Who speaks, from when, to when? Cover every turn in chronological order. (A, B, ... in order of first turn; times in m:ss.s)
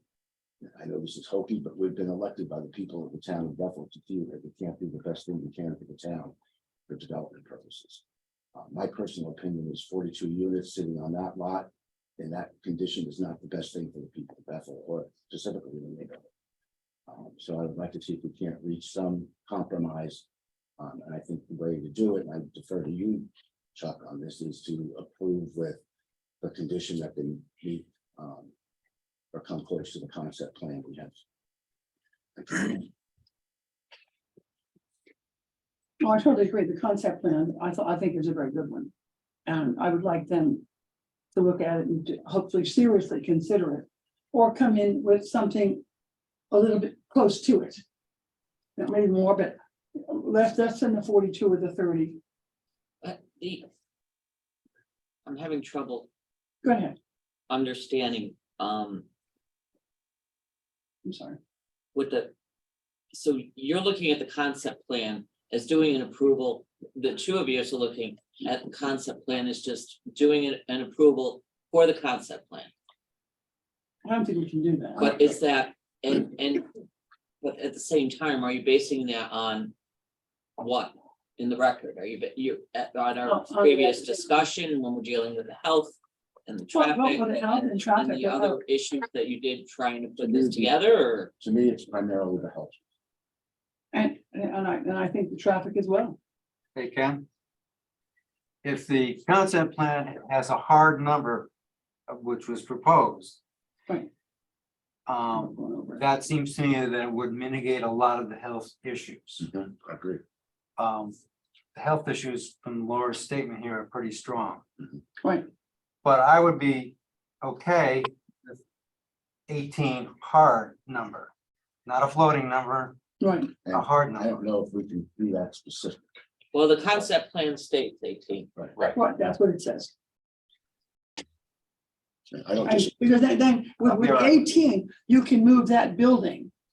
0:00.6-0:06.3 A
0:06.9-0:08.0 A
0:08.5-0:16.2 A
0:17.1-0:20.2 A
0:20.8-0:25.8 A
0:26.4-0:28.5 A
0:29.3-0:31.2 A
0:32.4-0:32.9 A
0:36.0-0:38.9 B
0:39.5-0:40.6 B
0:41.3-0:45.8 B
0:46.5-0:47.8 B
0:48.8-0:52.2 B
0:53.0-0:53.7 C
0:55.2-0:56.1 C
0:56.6-0:56.9 B
0:57.5-0:59.0 C
1:01.0-1:01.4 B
1:01.9-1:02.3 C
1:03.1-1:12.7 C
1:14.0-1:15.2 B
1:15.0-1:16.7 C
1:17.4-1:19.7 C
1:20.6-1:25.9 C
1:23.2-1:24.3 B
1:26.5-1:31.3 C
1:26.7-1:28.6 B
1:30.2-1:30.7 A
1:31.4-1:32.8 A
1:33.9-1:36.2 B
1:36.7-1:37.2 D
1:38.6-1:41.5 D
1:42.1-1:43.4 D
1:45.1-1:49.4 D
1:45.4-1:46.0 B
1:49.4-1:50.2 A
1:50.8-1:51.2 D
1:51.7-1:54.6 D
1:56.0-1:58.6 D
1:59.5-2:01.3 D
2:01.8-2:03.0 D
2:03.2-2:03.5 B
2:03.6-2:06.0 A
2:03.7-2:04.3 D
2:06.5-2:08.5 C
2:08.9-2:09.9 B
2:12.3-2:12.9 A
2:12.6-2:16.5 B
2:13.8-2:14.4 D